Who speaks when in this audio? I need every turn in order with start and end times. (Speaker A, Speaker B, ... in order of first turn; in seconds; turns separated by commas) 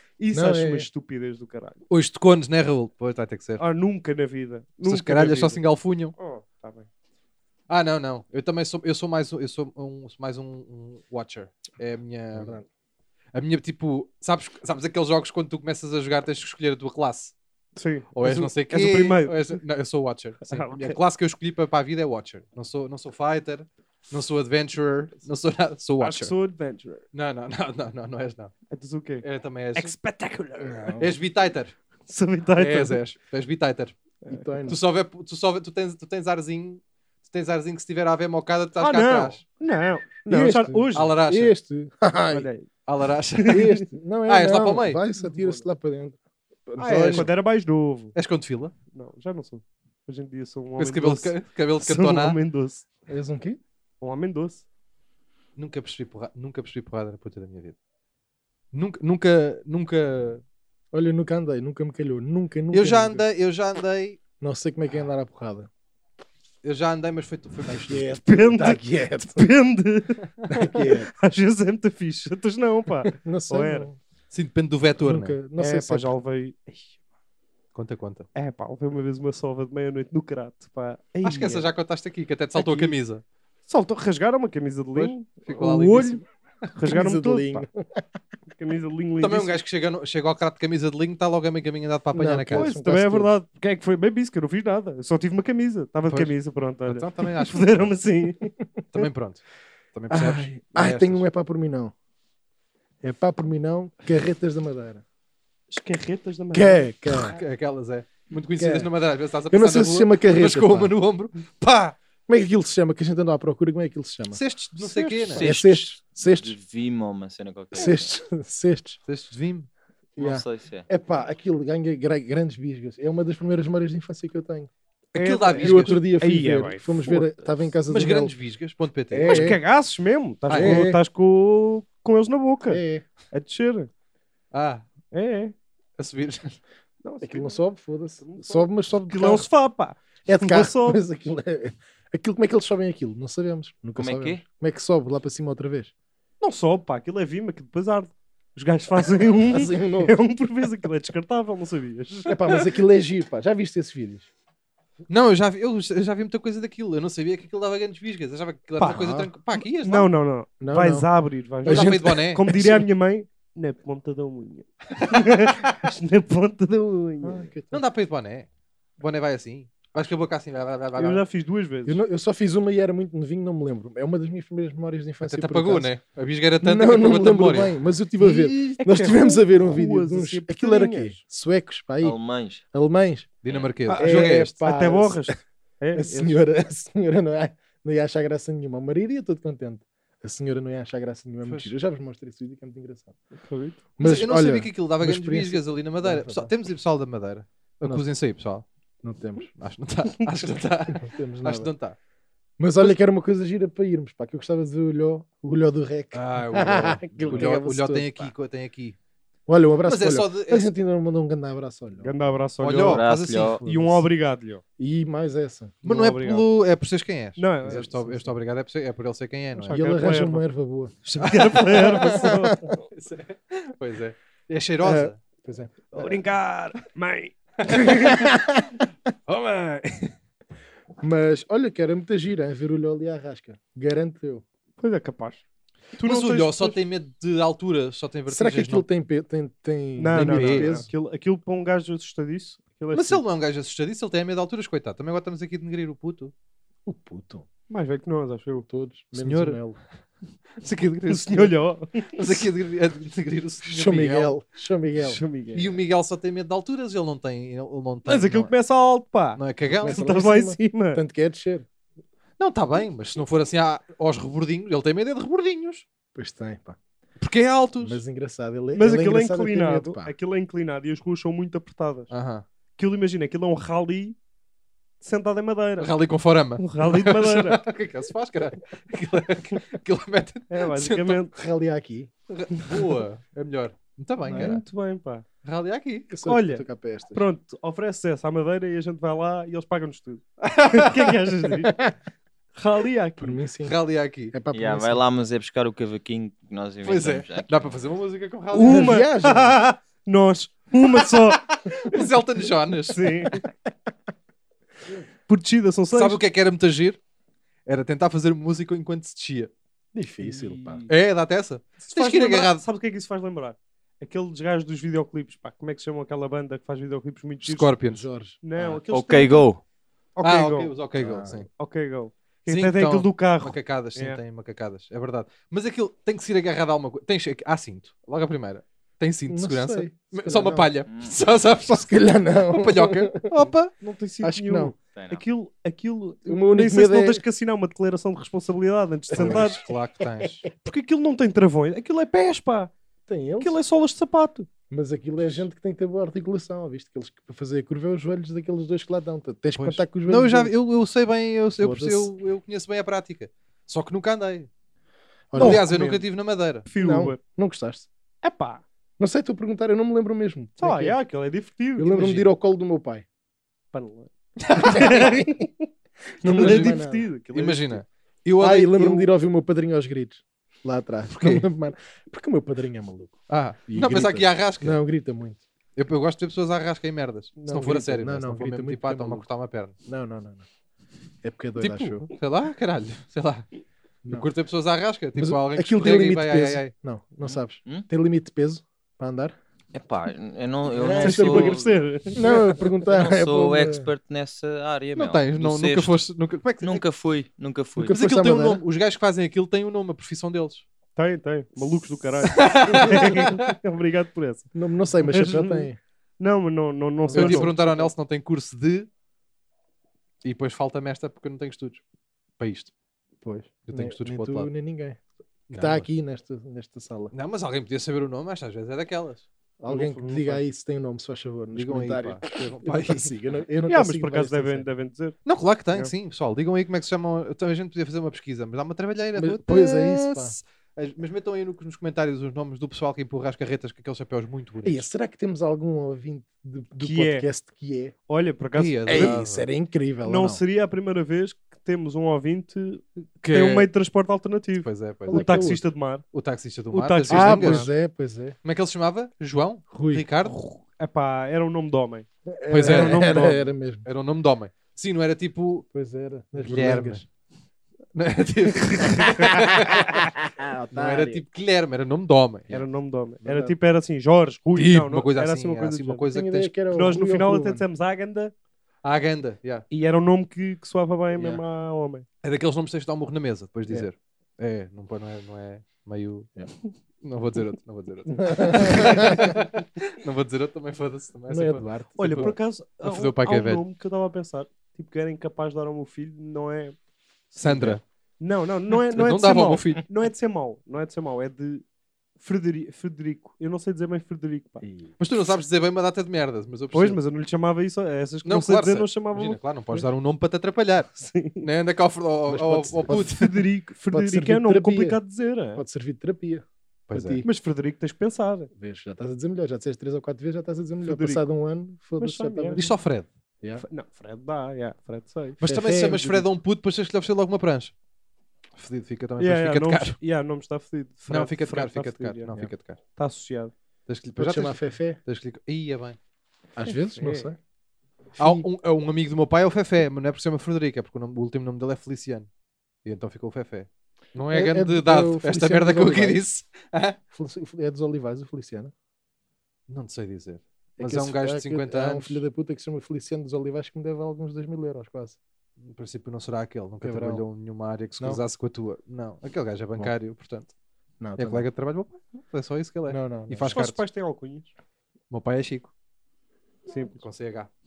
Speaker A: 0.2-1.8, Speaker B: 0.3-0.9, Speaker C: 1.9-3.6, Speaker A: 3.6-5.6, Speaker C: 4.8-6.1, Speaker A: 6.2-6.9, Speaker C: 7.7-12.6, Speaker B: 12.3-12.7, Speaker C: 13.3-17.3, Speaker A: 17.8-19.6, Speaker C: 18.1-26.3, Speaker A: 20.5-21.0, Speaker A: 26.0-27.0, Speaker C: 27.1-28.5, Speaker A: 28.7-31.0, Speaker C: 29.2-29.9, Speaker B: 30.6-31.1, Speaker C: 31.0-31.7, Speaker A: 32.1-33.0, Speaker C: 32.5-34.0, Speaker A: 34.2-34.5, Speaker B: 34.3-34.8, Speaker C: 34.6-39.4, Speaker A: 38.8-41.1, Speaker B: 40.3-42.5, Speaker C: 40.9-41.5, Speaker A: 42.3-42.7, Speaker C: 42.9-43.7, Speaker A: 43.4-43.8, Speaker B: 43.5-47.3, Speaker C: 44.2-45.0, Speaker A: 45.1-45.6, Speaker C: 46.8-47.3, Speaker A: 46.8-48.1, Speaker C: 48.1-48.7, Speaker A: 48.9-52.9, Speaker C: 50.8-52.4, Speaker B: 53.1-53.6, Speaker A: 54.0-54.6, Speaker C: 55.5-57.8, Speaker C: 58.7-60.4, Speaker B: 60.9-63.2, Speaker C: 62.7-64.2, Speaker B: 64.4-65.7, Speaker C: 66.6-68.0, Speaker B: 67.7-69.5, Speaker A: 68.2-73.9, Speaker B: 70.5-71.1, Speaker B: 73.2-74.0, Speaker C: 74.3-75.3, Speaker B: 75.0-76.1, Speaker A: 75.6-77.0, Speaker C: 77.7-78.3, Speaker A: 78.3-81.7, Speaker C: 81.2-83.2, Speaker A: 82.5-83.0, Speaker A: 83.7-86.2, Speaker C: 84.9-86.2, Speaker A: 86.7-87.7, Speaker B: 86.9-88.0, Speaker A: 88.5-89.6, Speaker C: 89.2-92.7, Speaker B: 92.1-93.3, Speaker A: 92.5-98.4, Speaker C: 96.8-97.9, Speaker C: 98.9-99.4, Speaker C: 99.9-101.2, Speaker B: 100.1-101.9, Speaker B: 103.0-105.0, Speaker A: 105.7-106.8, Speaker B: 106.5-107.4, Speaker C: 107.1-112.0, Speaker B: 108.6-108.9, Speaker B: 109.5-110.9, Speaker B: 112.3-114.4, Speaker C: 114.3-115.5, Speaker A: 114.8-115.4, Speaker D: 115.2-118.1, Speaker B: 115.4-116.5, Speaker B: 117.7-119.0, Speaker C: 119.1-119.7, Speaker B: 120.2-124.7, Speaker D: 120.2-120.8, Speaker C: 125.1-126.0, Speaker A: 125.2-127.3, Speaker B: 125.6-128.3, Speaker C: 127.9-129.6, Speaker B: 129.1-129.6, Speaker A: 129.2-133.9, Speaker C: 130.5-130.9, Speaker B: 130.5-131.0, Speaker B: 132.7-133.0, Speaker C: 134.5-134.8, Speaker A: 135.1-135.5, Speaker C: 136.0-136.6, Speaker A: 137.0-137.6, Speaker B: 137.2-139.5, Speaker A: 138.2-141.0, Speaker B: 140.2-145.9, Speaker D: 144.0-144.4, Speaker A: 146.4-152.5, Speaker B: 149.5-150.1, Speaker B: 152.2-154.3, Speaker C: 155.1-160.1, Speaker B: 158.8-159.3, Speaker A: 159.8-167.5, Speaker B: 160.6-161.1, Speaker B: 161.6-162.8, Speaker C: 161.6-162.7, Speaker B: 167.2-167.8, Speaker C: 167.7-168.5, Speaker C: 169.0-171.2, Speaker A: 170.9-172.0, Speaker B: 171.8-175.9, Speaker C: 175.2-177.7, Speaker B: 176.6-182.2, Speaker A: 178.2-181.2, Speaker D: 182.0-182.6, Speaker B: 182.7-183.3, Speaker C: 183.4-184.5, Speaker D: 183.5-183.7, Speaker A: 183.9-186.4, Speaker B: 183.9-185.3, Speaker B: 185.9-193.1, Speaker C: 191.4-191.7, Speaker A: 193.3-193.8, Speaker B: 194.0-196.5, Speaker C: 194.0-198.6, Speaker B: 199.0-199.5, Speaker C: 199.6-201.9, Speaker B: 200.9-201.7, Speaker B: 202.6-208.3, Speaker C: 206.1-208.9, Speaker B: 209.5-212.1, Speaker C: 209.8-210.7, Speaker A: 212.0-213.1, Speaker C: 212.6-213.9, Speaker D: 212.8-213.6, Speaker A: 213.6-214.6, Speaker B: 214.8-215.8, Speaker A: 215.8-216.4, Speaker C: 215.8-219.8, Speaker A: 217.4-217.8, Speaker B: 217.6-218.3, Speaker B: 219.6-220.9, Speaker A: 219.7-220.4, Speaker A: 221.0-222.6, Speaker C: 221.2-222.1, Speaker B: 221.7-222.8, Speaker C: 222.8-225.2, Speaker B: 224.8-226.2, Speaker A: 225.9-228.2, Speaker B: 227.7-228.8, Speaker C: 229.3-230.1, Speaker B: 231.0-234.4, Speaker A: 234.8-235.4, Speaker A: 236.0-236.8, Speaker C: 236.0-238.8, Speaker B: 238.3-240.9, Speaker A: 240.0-243.2, Speaker C: 240.2-240.7, Speaker C: 242.9-246.3, Speaker B: 246.8-247.4, Speaker A: 247.7-248.7, Speaker B: 248.7-249.8, Speaker C: 249.1-249.6, Speaker C: 250.6-251.5, Speaker A: 251.1-252.4, Speaker C: 252.1-254.3, Speaker B: 253.6-255.2, Speaker A: 254.9-255.8, Speaker C: 255.5-258.5, Speaker A: 258.1-261.0, Speaker C: 259.4-260.0, Speaker B: 259.8-261.6, Speaker C: 262.4-265.8, Speaker B: 266.1-266.8, Speaker C: 267.2-268.0, Speaker B: 267.8-270.1, Speaker A: 268.7-272.1, Speaker C: 272.1-272.4, Speaker A: 272.8-274.2, Speaker A: 275.0-275.9, Speaker C: 275.8-281.2, Speaker A: 276.6-277.6, Speaker A: 280.5-281.3, Speaker B: 281.3-282.1, Speaker C: 282.3-284.6, Speaker A: 282.5-283.0, Speaker B: 284.2-284.6, Speaker A: 284.3-285.2, Speaker C: 285.4-286.1, Speaker B: 286.1-287.2, Speaker A: 286.2-291.9, Speaker C: 290.4-291.2, Speaker A: 292.5-293.4, Speaker B: 293.2-293.7, Speaker C: 293.6-294.3, Speaker B: 294.3-295.0, Speaker D: 294.5-297.7, Speaker C: 296.8-299.0, Speaker A: 298.5-302.0, Speaker B: 298.6-299.6, Speaker C: 301.0-303.1, Speaker A: 302.9-303.4, Speaker A: 305.2-306.2, Speaker C: 305.9-307.0, Speaker C: 307.6-309.5, Speaker B: 309.9-310.8, Speaker A: 310.2-310.9, Speaker C: 310.9-312.6, Speaker A: 311.8-317.7, Speaker C: 317.4-318.0, Speaker B: 317.8-318.4, Speaker A: 318.4-319.5, Speaker D: 318.9-319.6, Speaker A: 320.1-320.7, Speaker C: 320.2-321.5, Speaker B: 321.0-321.4, Speaker A: 321.6-324.2, Speaker C: 322.5-331.9, Speaker B: 329.3-330.7, Speaker D: 330.9-331.1, Speaker B: 331.6-333.5, Speaker C: 332.5-333.7, Speaker A: 333.8-339.6, Speaker B: 334.2-334.7, Speaker D: 334.9-335.2, Speaker B: 336.2-337.2, Speaker B: 339.1-339.6, Speaker C: 339.2-340.4, Speaker A: 340.6-342.7, Speaker B: 343.1-343.6, Speaker A: 343.4-344.5, Speaker B: 344.7-350.5, Speaker C: 349.6-354.5, Speaker B: 351.6-352.1, Speaker B: 355.3-356.0, Speaker C: 355.3-356.7, Speaker A: 355.4-355.9, Speaker A: 356.7-357.2, Speaker B: 356.7-357.9, Speaker A: 358.2-358.6, Speaker B: 359.0-361.0, Speaker A: 360.6-362.2, Speaker B: 361.8-363.1, Speaker C: 362.0-362.3, Speaker A: 363.7-365.6, Speaker C: 364.4-365.1, Speaker B: 364.6-365.5, Speaker B: 366.2-367.1, Speaker C: 366.3-366.8, Speaker A: 366.3-367.8, Speaker C: 367.3-369.1, Speaker B: 368.4-375.4, Speaker C: 371.1-371.5, Speaker C: 373.3-374.8, Speaker C: 375.8-379.7, Speaker A: 377.4-377.7, Speaker B: 377.5-379.2, Speaker B: 379.9-380.4, Speaker B: 381.2-382.0, Speaker C: 381.6-383.4, Speaker C: 384.1-386.7, Speaker B: 385.1-389.4, Speaker D: 387.2-387.9, Speaker D: 389.7-395.9, Speaker B: 390.7-391.6, Speaker A: 391.0-392.6, Speaker B: 392.1-393.9, Speaker C: 394.9-396.8, Speaker D: 396.6-397.9, Speaker B: 397.8-398.6, Speaker C: 397.9-400.6, Speaker A: 400.9-404.5, Speaker C: 402.2-403.5, Speaker B: 404.5-405.8, Speaker A: 405.1-405.7, Speaker A: 406.2-407.9, Speaker B: 407.1-407.5, Speaker C: 407.1-408.9, Speaker C: 410.2-411.8, Speaker C: 412.4-412.7, Speaker B: 413.2-415.0, Speaker C: 413.7-414.5, Speaker C: 415.5-415.9, Speaker B: 415.5-417.1, Speaker C: 417.1-420.4, Speaker B: 419.6-424.7, Speaker A: 419.7-420.2, Speaker C: 421.5-423.1, Speaker A: 423.7-425.1, Speaker C: 425.2-434.9, Speaker B: 429.1-430.3, Speaker B: 434.6-437.9, Speaker A: 436.8-437.3, Speaker A: 438.1-439.2, Speaker C: 438.6-439.4, Speaker B: 438.9-440.4, Speaker A: 440.0-446.0, Speaker C: 443.2-443.7, Speaker C: 444.6-445.5, Speaker B: 445.1-445.6, Speaker C: 446.1-447.7, Speaker A: 446.7-447.7, Speaker B: 447.1-448.4, Speaker C: 448.4-450.4, Speaker B: 449.7-450.1, Speaker A: 450.2-453.5, Speaker B: 452.3-453.9, Speaker C: 452.5-453.2, Speaker C: 453.9-455.6, Speaker B: 455.7-457.1, Speaker C: 456.4-457.0, Speaker C: 457.9-460.1, Speaker A: 458.6-459.3, Speaker B: 459.0-461.2, Speaker C: 460.7-462.6, Speaker A: 462.5-466.0, Speaker B: 463.2-463.5, Speaker C: 464.5-466.5, Speaker B: 466.1-467.6, Speaker A: 466.7-468.3, Speaker C: 468.8-469.6, Speaker A: 469.7-472.1, Speaker B: 471.1-471.4, Speaker C: 472.2-476.3, Speaker C: 477.0-483.6, Speaker B: 478.2-479.4, Speaker B: 481.3-482.4, Speaker A: 482.0-486.8, Speaker C: 487.4-487.8, Speaker B: 487.4-487.8, Speaker A: 488.2-491.6, Speaker C: 488.9-489.8, Speaker A: 492.2-494.6, Speaker B: 494.6-494.9, Speaker C: 495.0-497.0, Speaker A: 496.7-499.9, Speaker C: 498.2-500.9, Speaker A: 500.9-501.4, Speaker C: 501.4-503.4, Speaker B: 502.3-503.1, Speaker A: 502.9-505.6, Speaker B: 503.9-505.0, Speaker B: 505.6-507.3, Speaker C: 506.9-507.2, Speaker A: 507.2-508.5, Speaker B: 508.5-512.7, Speaker A: 510.8-511.2, Speaker A: 512.0-512.7, Speaker C: 512.6-513.1, Speaker A: 513.6-516.2, Speaker C: 515.4-517.7, Speaker B: 515.4-516.0, Speaker C: 518.6-520.0, Speaker A: 519.2-522.4, Speaker C: 521.1-522.8, Speaker A: 523.0-523.5, Speaker C: 523.9-526.0, Speaker B: 524.1-525.0, Speaker B: 526.5-527.4, Speaker A: 526.7-527.3, Speaker B: 528.2-528.5, Speaker C: 528.2-532.3, Speaker C: 532.9-537.0, Speaker B: 534.3-536.2, Speaker B: 537.1-538.7, Speaker C: 539.7-542.2, Speaker B: 540.8-545.2, Speaker C: 545.6-550.5, Speaker B: 546.8-547.2, Speaker B: 551.0-551.5, Speaker C: 551.2-553.8, Speaker B: 552.9-553.5, Speaker A: 553.4-554.5, Speaker C: 555.1-555.7, Speaker A: 556.7-557.0, Speaker C: 557.0-557.5